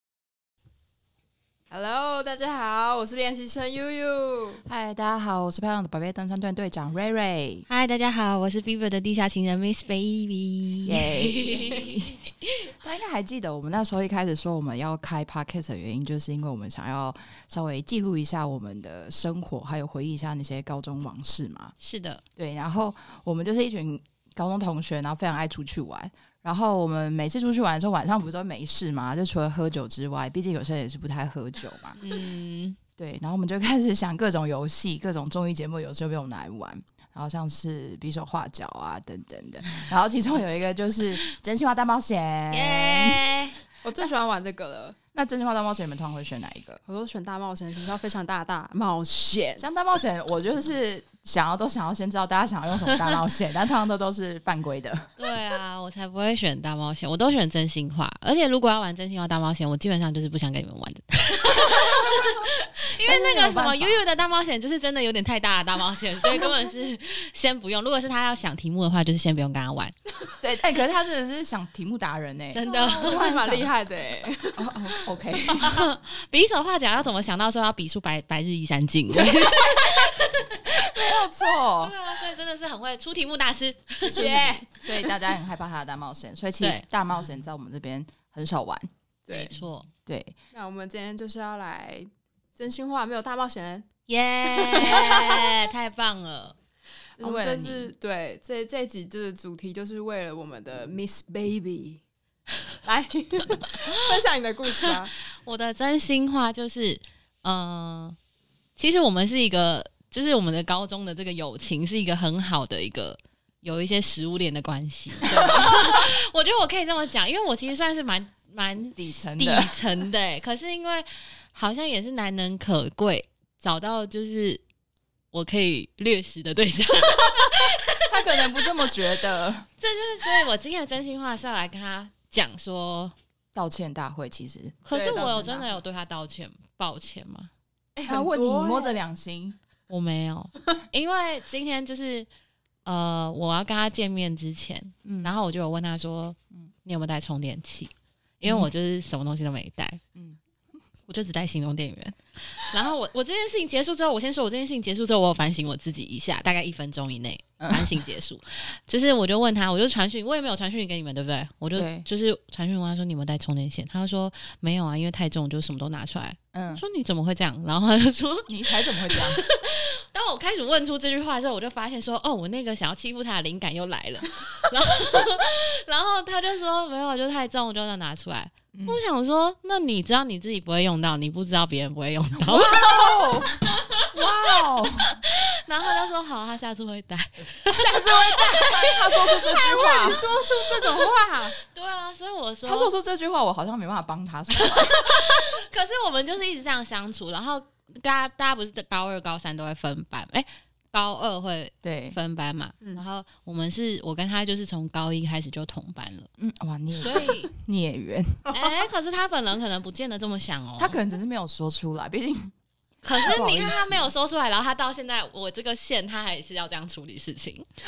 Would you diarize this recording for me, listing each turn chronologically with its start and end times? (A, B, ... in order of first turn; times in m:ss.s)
0:01.7-0:04.6 A
0:04.6-0:07.7 B
0:07.7-0:11.9 C
0:10.8-0:12.1 B
0:12.8-0:21.7 B
0:21.8-0:22.2 C
0:22.4-0:32.0 B
0:32.0-0:32.8 C
0:33.0-0:43.3 B
0:42.5-0:43.6 C
0:43.8-0:45.0 A
0:45.1-0:46.8 B
0:46.8-0:49.7 A
0:49.6-0:55.1 B
0:52.9-0:53.2 C
0:55.2-1:09.9 C
1:01.7-1:02.3 B
1:03.0-1:04.0 B
1:10.4-1:13.7 B
1:12.5-1:13.3 C
1:12.6-1:14.7 A
1:14.6-1:15.9 B
1:15.6-1:20.6 C
1:19.2-1:20.1 B
1:20.7-1:21.9 B
1:21.8-1:24.7 C
1:24.0-1:24.7 A
1:24.7-1:28.9 B
1:26.6-1:26.8 C
1:29.3-1:29.6 A
1:29.3-1:29.9 C
1:30.0-1:30.3 B
1:30.5-1:33.9 A
1:34.1-1:36.6 C
1:34.5-1:35.5 A
1:37.2-1:42.0 A
1:37.2-1:37.9 B
1:42.8-1:45.1 A
1:45.4-1:48.2 C
1:48.8-2:04.6 C
1:59.0-1:59.7 B
2:05.3-2:08.1 C
2:08.0-2:09.7 B
2:09.8-2:13.1 C
2:13.5-2:14.8 B
2:14.8-2:17.5 C
2:14.9-2:15.8 A
2:18.0-2:19.6 B
2:18.0-2:19.0 A
2:19.9-2:22.3 C
2:22.8-2:30.0 C
2:25.0-2:25.3 B
2:28.4-2:28.7 B
2:31.1-3:03.1 C
2:37.6-2:38.0 B
2:41.7-2:42.1 B
2:46.5-2:46.8 B
2:48.5-2:49.4 B
2:58.7-2:59.0 B
3:02.4-3:05.2 B
3:03.6-3:04.1 C
3:05.1-3:08.2 C
3:07.7-3:11.5 A
3:08.5-3:10.3 B
3:11.6-3:12.9 C
3:12.6-3:15.3 B
3:14.7-3:26.3 C
3:21.8-3:22.2 B
3:26.4-3:28.5 B
3:26.9-3:27.5 C
3:28.5-3:31.0 C
3:30.8-3:32.5 B
3:33.0-3:37.7 C
3:33.2-3:34.1 B